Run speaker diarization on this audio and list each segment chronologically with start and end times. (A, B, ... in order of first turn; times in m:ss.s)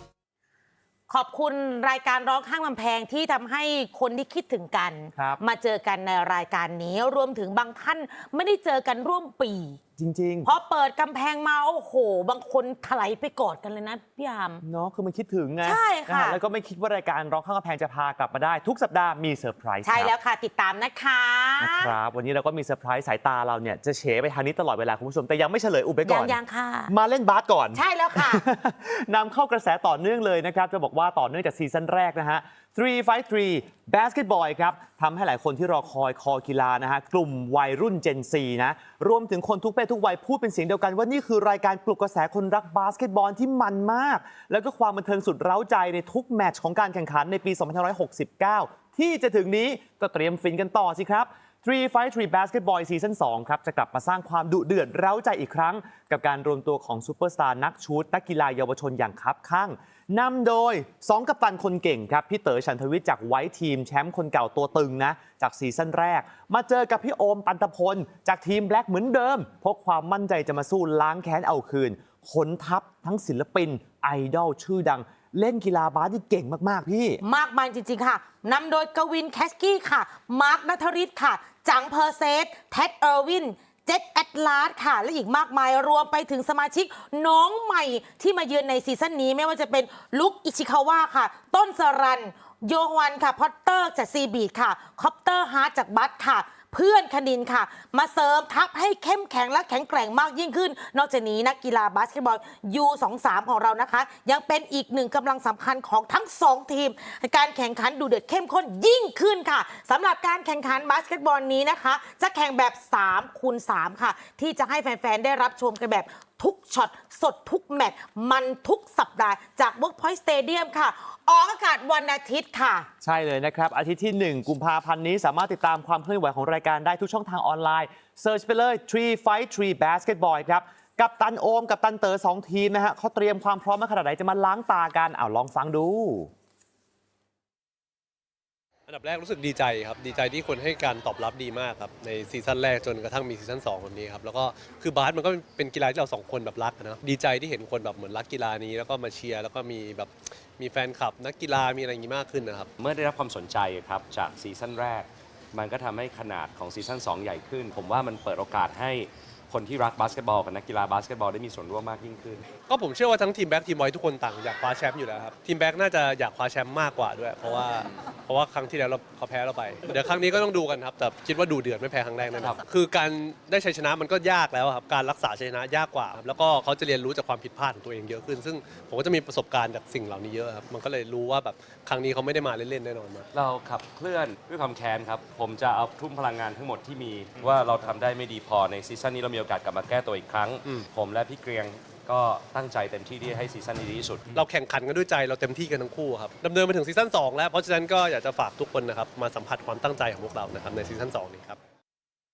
0:01.1-0:09.8 A
0:10.0-0:10.5 B
0:10.4-0:14.6 A
0:14.6-0:20.1 B
0:15.6-0:16.4 A
0:19.8-0:21.9 A
0:21.6-1:17.2 B
0:26.0-0:26.9 A
0:27.7-0:28.4 A
1:17.2-2:02.9 A
2:03.0-2:16.3 B
2:18.9-2:32.7 C
2:32.8-2:42.4 D
2:42.7-3:03.3 C
3:03.3-3:14.3 D
3:14.3-3:21.6 C